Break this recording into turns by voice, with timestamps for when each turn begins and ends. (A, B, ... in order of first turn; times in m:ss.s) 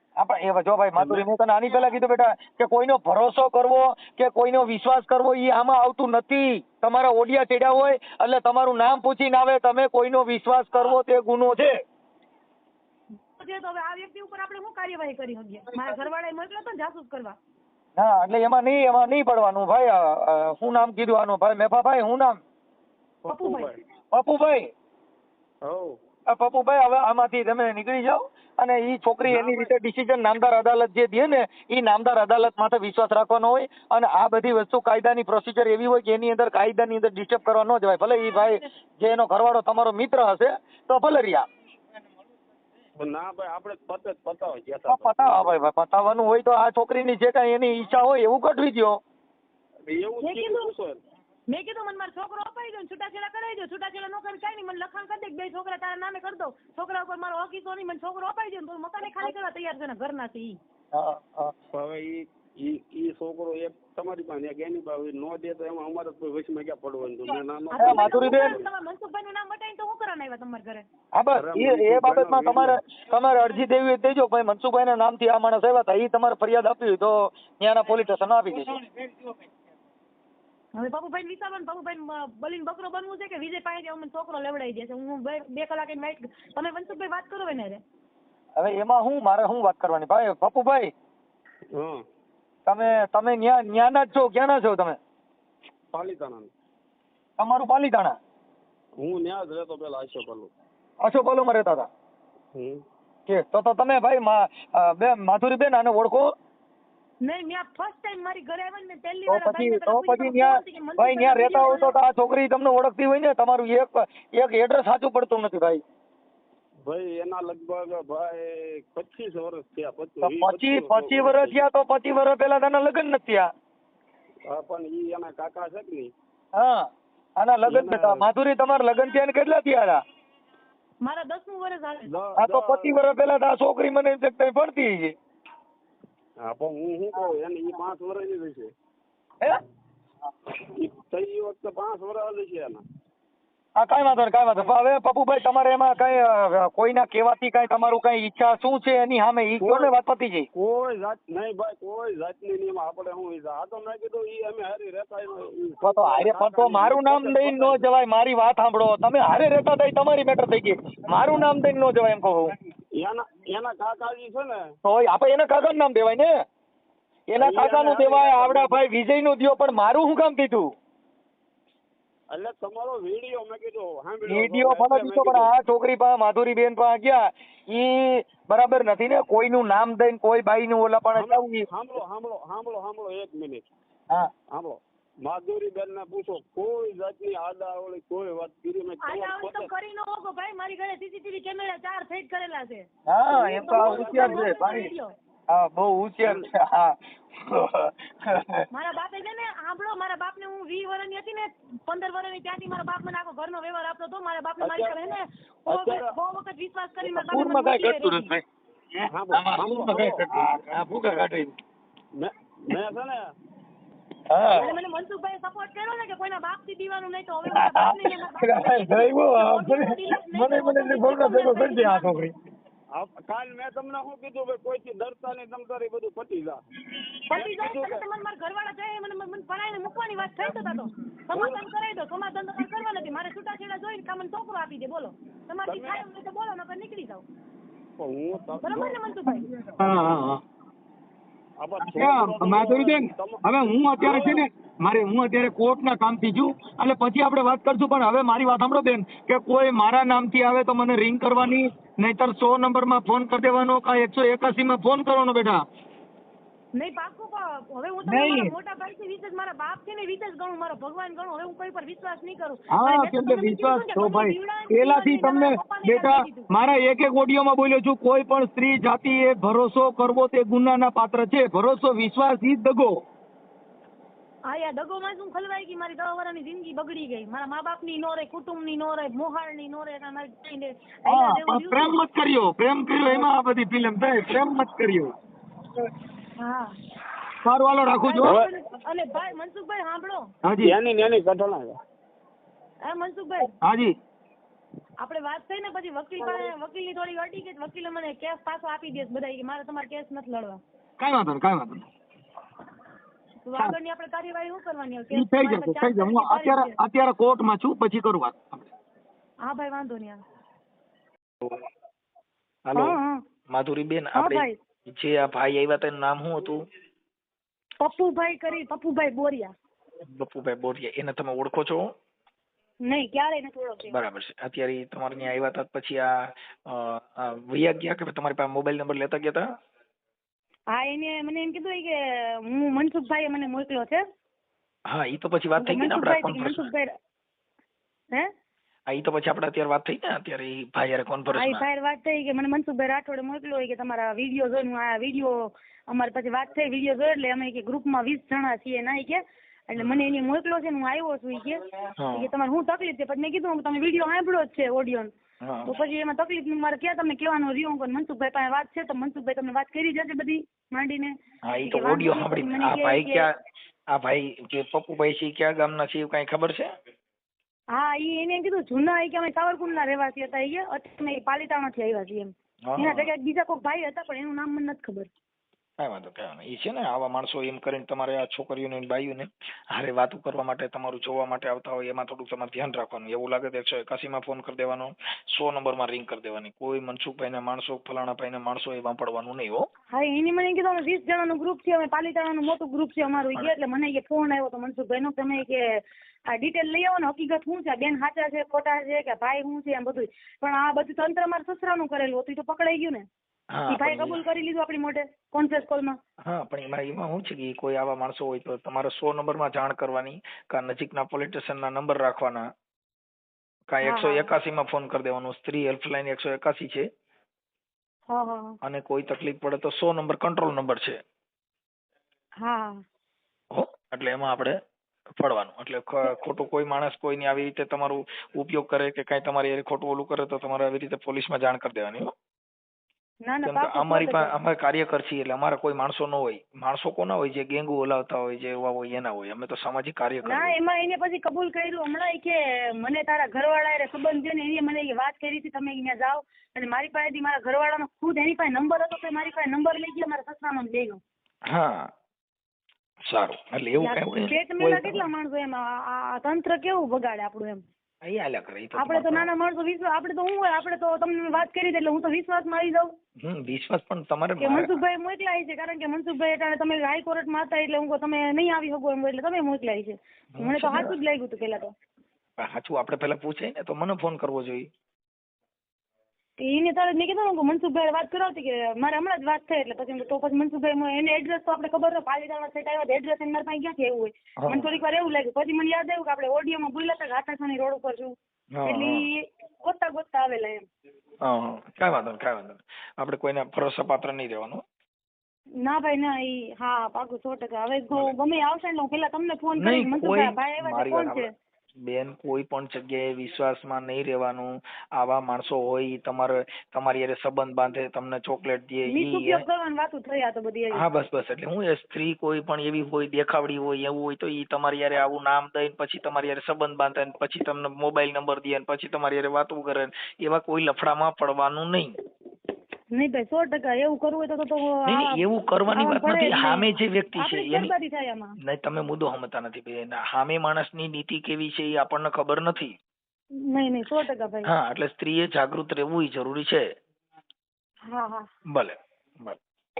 0:00.2-0:11.7 A
0:01.0-0:01.2 B
0:13.4-0:17.4 C
0:18.0-0:22.4 A
0:23.2-0:23.8 B
0:23.3-0:23.7 C
0:24.1-0:24.7 A
0:25.6-0:25.9 B
0:26.3-0:41.4 A
0:29.3-0:29.7 B
0:43.0-0:45.6 B
0:44.9-0:49.0 A
0:49.9-0:51.0 B
0:50.2-0:50.7 C
0:51.5-1:00.6 C
1:00.9-1:01.5 A
1:01.7-1:08.7 B
1:07.7-1:10.8 C
1:07.8-1:08.6 A
1:11.1-1:18.8 A
1:11.3-1:12.8 B
1:20.8-1:27.8 C
1:28.6-1:30.9 A
1:31.7-1:32.0 B
1:32.6-1:35.0 A
1:35.9-1:36.5 B
1:37.4-1:38.2 A
1:39.0-1:40.5 B
1:41.0-1:41.9 A
1:42.5-1:42.8 B
1:43.3-1:46.3 A
1:47.2-1:52.0 C
1:49.3-1:55.8 A
1:56.8-2:01.6 B
2:00.2-2:03.5 A
2:04.5-2:06.1 B
2:06.6-2:06.9 A
2:07.4-2:10.0 A
2:07.6-2:08.3 B
2:11.0-2:12.1 C
2:12.1-2:12.9 B
2:12.4-2:15.1 A
2:16.4-2:18.7 B
2:20.5-2:22.8 B
2:23.8-2:30.5 A
2:29.6-2:29.9 B
2:30.5-2:37.9 B
2:35.8-2:42.5 A
2:43.0-2:44.6 B
2:44.8-2:46.3 A
2:47.3-2:50.7 A
2:47.4-2:48.8 B
2:52.3-2:55.5 B
2:54.2-3:01.6 A
3:01.1-3:03.6 B
3:04.5-3:09.7 B
3:09.0-3:12.9 C
3:13.1-3:14.9 A
3:13.3-3:14.6 B
3:13.6-3:15.1 C
3:15.5-3:18.6 A
3:18.7-3:28.3 C
3:24.6-3:25.0 B
3:25.7-3:26.1 B
3:27.0-3:31.5 A
3:29.1-3:30.5 B
3:32.2-3:33.2 B
3:34.3-3:34.8 A
3:34.5-3:42.2 C
3:37.5-3:42.3 A
3:42.9-3:46.6 B
3:47.3-3:57.2 C
3:47.3-3:48.0 B
3:51.3-3:51.6 B
3:55.6-3:56.1 B
3:58.0-3:59.0 B
3:58.6-3:59.5 C
3:59.7-4:00.4 A
4:01.6-4:04.4 B
4:01.8-4:15.6 A
4:16.7-4:26.5 C
4:18.0-4:18.5 A
4:22.7-4:32.9 A
4:34.5-4:42.0 C
4:41.1-4:45.1 A
4:46.4-4:46.7 C
4:47.4-4:48.4 A
4:48.0-4:50.3 C
4:48.2-4:48.5 B
4:50.4-4:50.7 A
4:50.6-4:51.8 B
4:52.8-4:53.5 C
4:53.6-4:53.9 A
4:55.0-5:00.6 C
5:01.0-5:01.9 A
5:03.4-5:06.8 C
5:05.1-5:08.7 A
5:09.4-5:10.2 C
5:12.7-5:13.0 D
5:12.7-5:13.2 C
5:13.5-5:16.6 D
5:14.1-5:14.6 C
5:17.8-5:19.5 C
5:20.1-5:21.9 D
5:22.8-5:23.9 C
5:23.9-5:26.1 D
5:26.7-5:29.4 D
5:30.7-5:34.0 C
5:34.9-5:36.7 D
5:35.6-5:36.9 C
5:38.9-5:41.6 D
5:41.3-5:55.1 C
5:52.0-5:52.3 D
5:55.4-5:55.7 D
5:55.6-6:03.3 C
6:01.5-6:03.3 D
6:03.9-6:06.7 D
6:07.7-6:15.1 C
6:12.7-6:13.1 D
6:15.8-6:29.7 D
6:29.9-6:43.0 C
6:43.5-6:44.2 D
6:43.7-6:46.0 C
6:46.2-6:52.4 D
6:53.7-6:56.8 D
6:53.8-6:54.3 C
6:58.1-6:58.6 C
6:58.6-7:01.0 D
7:02.4-7:02.8 C
7:03.5-7:04.5 D
7:05.2-7:12.1 D
7:13.2-7:14.3 C
7:13.4-7:20.6 D
7:20.2-7:31.0 C
7:31.5-7:31.8 D
7:33.1-7:35.0 D
7:33.8-7:37.6 C
7:38.0-7:39.3 D
7:38.7-7:42.9 C
7:43.2-7:44.8 D
7:44.4-7:51.7 C
7:50.3-7:51.0 D
7:52.4-7:54.6 D
7:56.4-8:10.6 C
8:04.4-8:04.7 D
8:08.5-8:09.1 D
8:11.2-8:14.6 D
8:15.6-8:21.3 C
8:19.6-8:21.3 D
8:21.9-8:29.4 D
8:28.9-8:30.8 C
8:30.7-8:42.0 D
8:42.9-8:45.1 C
8:44.8-8:47.7 D
8:45.7-8:48.3 C
8:48.4-8:52.7 D
8:53.5-8:54.5 C
8:54.5-8:56.6 D
8:57.9-8:58.3 C
8:58.5-8:59.4 D